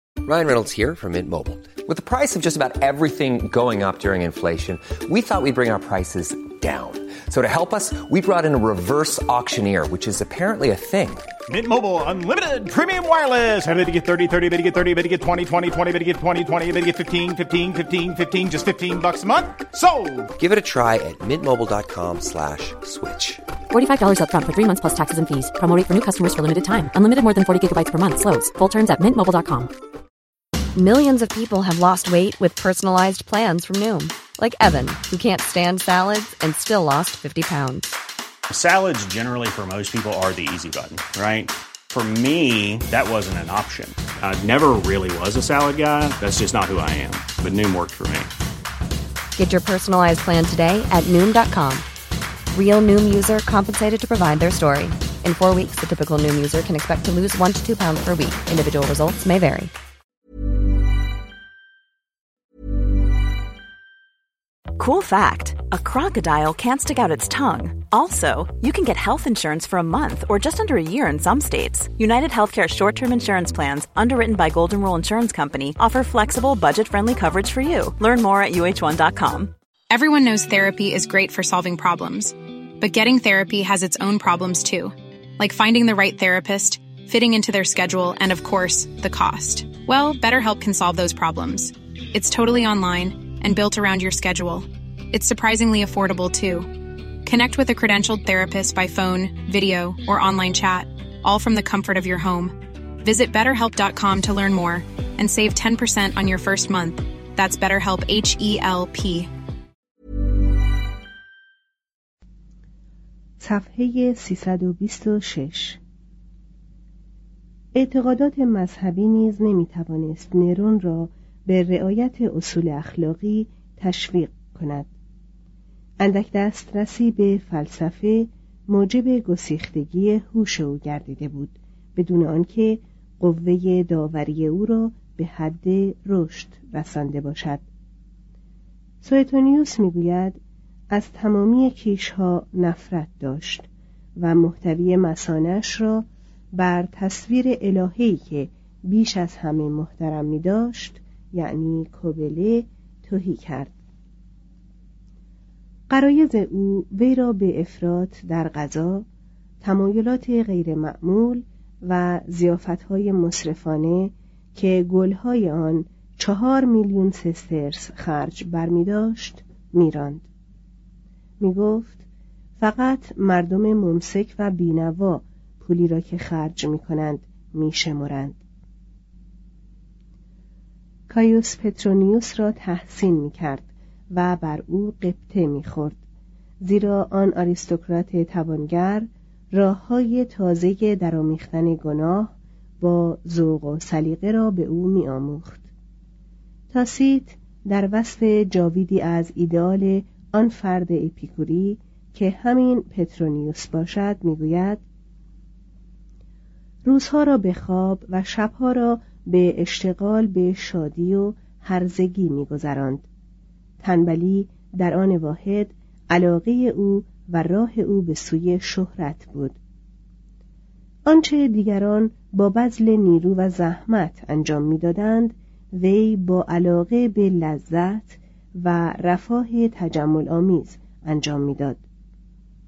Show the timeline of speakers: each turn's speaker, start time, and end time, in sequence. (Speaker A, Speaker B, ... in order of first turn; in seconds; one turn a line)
Speaker A: 0.2-11.3
Speaker B: 11.5-20.3
Speaker A: 20.4-23.4
Speaker C: 23.7-29.7
Speaker D: 30.8-37.9
Speaker E: 38.5-48.3
Speaker D: 49.4-51.9
Speaker D: 52.5-59.7
Speaker F: 64.8-79.5
Speaker G: 79.9-96.7
Speaker G: 97.2-109.3
Speaker H: 113.4-115.8
Speaker H: 117.7-124.9
Speaker H: 126.0-137.6
Speaker H: 139.0-140.4
Speaker H: 140.9-143.7
Speaker H: 144.2-153.7
Speaker H: 155.9-159.1
Speaker H: 159.6-170.3
Speaker H: 171.4-172.0
Speaker H: 172.6-178.4
Speaker H: 181.1-186.0
Speaker H: 186.6-195.7
Speaker H: 196.7-204.8
Speaker H: 206.8-213.1
Speaker H: 213.8-219.6
Speaker H: 221.1-231.8